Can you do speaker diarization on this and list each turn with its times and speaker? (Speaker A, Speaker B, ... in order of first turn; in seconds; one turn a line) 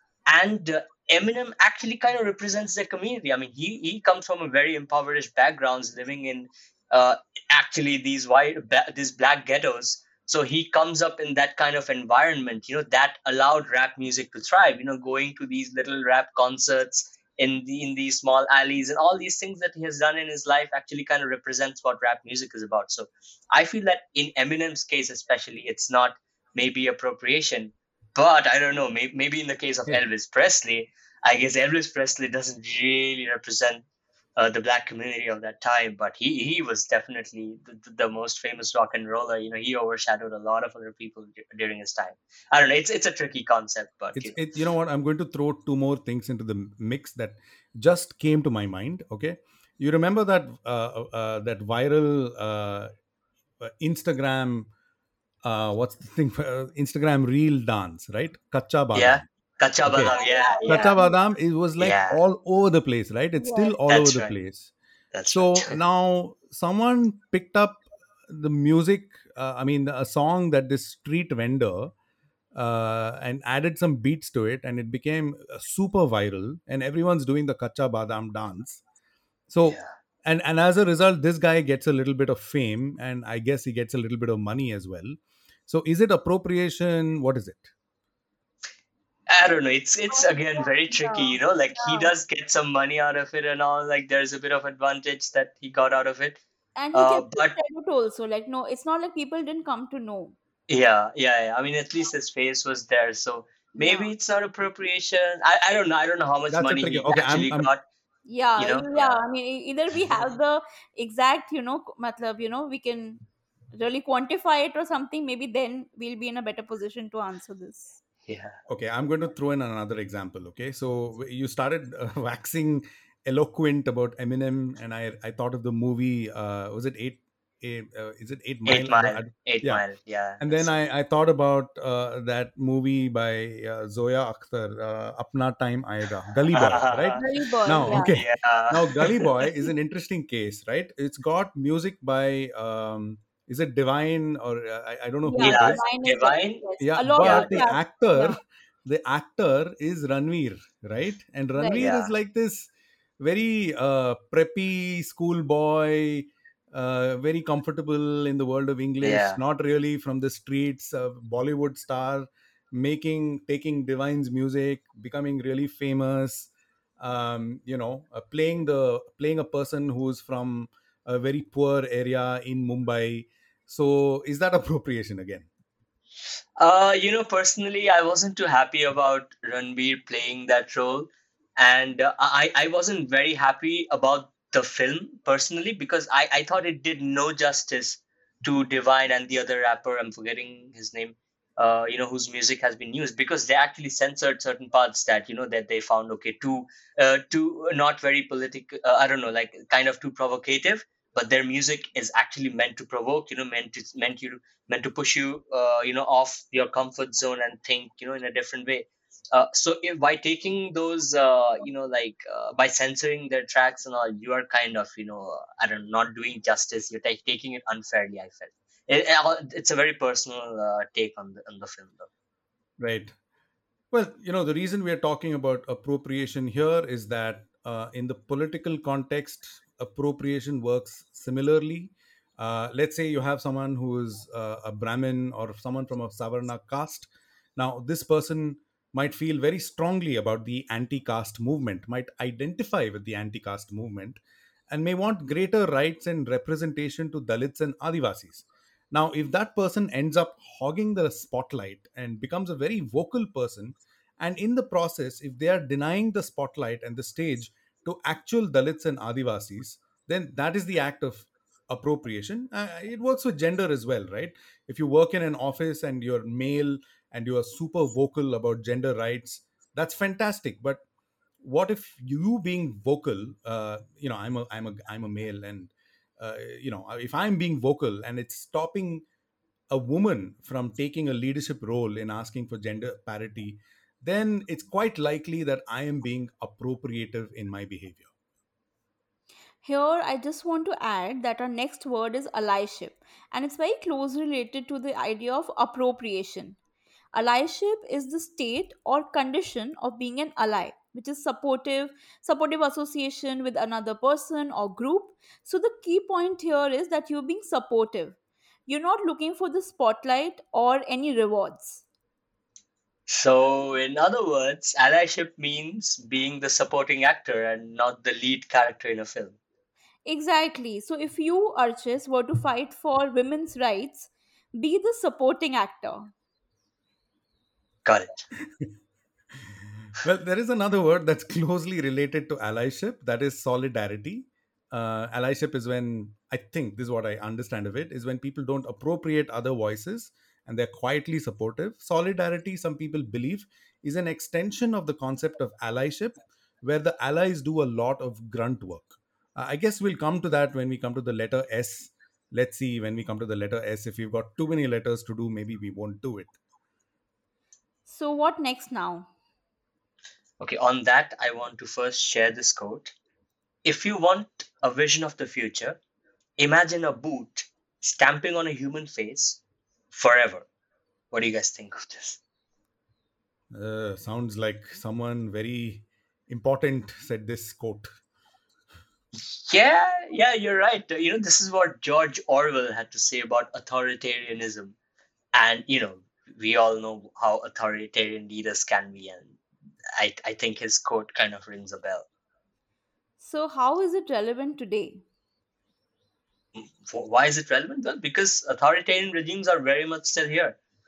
Speaker A: 0.3-33.8
Speaker A: 34.4-44.4
Speaker B: 44.1-52.9
Speaker B: 53.6-54.7
Speaker B: 55.4-59.3
Speaker A: 58.9-61.0
Speaker B: 59.8-60.1
Speaker C: 60.0-61.1
Speaker B: 60.7-64.7
Speaker A: 61.8-62.2
Speaker C: 63.4-63.8
Speaker A: 63.9-64.3
Speaker A: 65.1-65.8
Speaker B: 65.3-71.9
Speaker B: 72.5-78.8
Speaker B: 79.5-85.2
Speaker B: 85.7-87.7
Speaker A: 89.3-96.4
Speaker C: 90.1-92.1
Speaker C: 96.8-100.3
Speaker A: 96.9-97.5
Speaker A: 100.7-107.8
Speaker C: 103.8-104.1
Speaker B: 106.5-107.7
Speaker C: 108.2-113.2
Speaker A: 108.6-109.2
Speaker C: 113.7-117.9
Speaker A: 118.2-118.6
Speaker B: 118.7-129.8
Speaker A: 128.7-130.7
Speaker B: 130.4-145.8
Speaker A: 136.5-139.7
Speaker C: 137.2-138.1
Speaker C: 145.2-148.4
Speaker A: 145.4-146.6
Speaker B: 146.8-175.5
Speaker A: 147.2-147.5
Speaker C: 151.6-151.9
Speaker A: 151.7-152.1
Speaker A: 159.0-159.4
Speaker A: 176.6-222.1
Speaker B: 222.8-223.1
Speaker B: 223.9-244.2
Speaker B: 244.7-270.8
Speaker B: 271.4-279.0
Speaker B: 279.7-288.1
Speaker C: 289.6-296.6
Speaker C: 297.1-311.8
Speaker A: 313.1-319.4
Speaker C: 320.1-326.1
Speaker A: 327.8-328.2
Speaker B: 330.0-356.3
Speaker C: 357.9-359.1
Speaker A: 360.4-362.9
Speaker A: 363.6-365.8
Speaker A: 366.4-369.4
Speaker A: 369.9-370.4
Speaker A: 371.1-372.2
Speaker B: 373.5-377.9
Speaker A: 379.1-384.7
Speaker A: 385.3-389.4
Speaker A: 390.0-392.1
Speaker C: 393.2-395.0
Speaker A: 396.6-400.6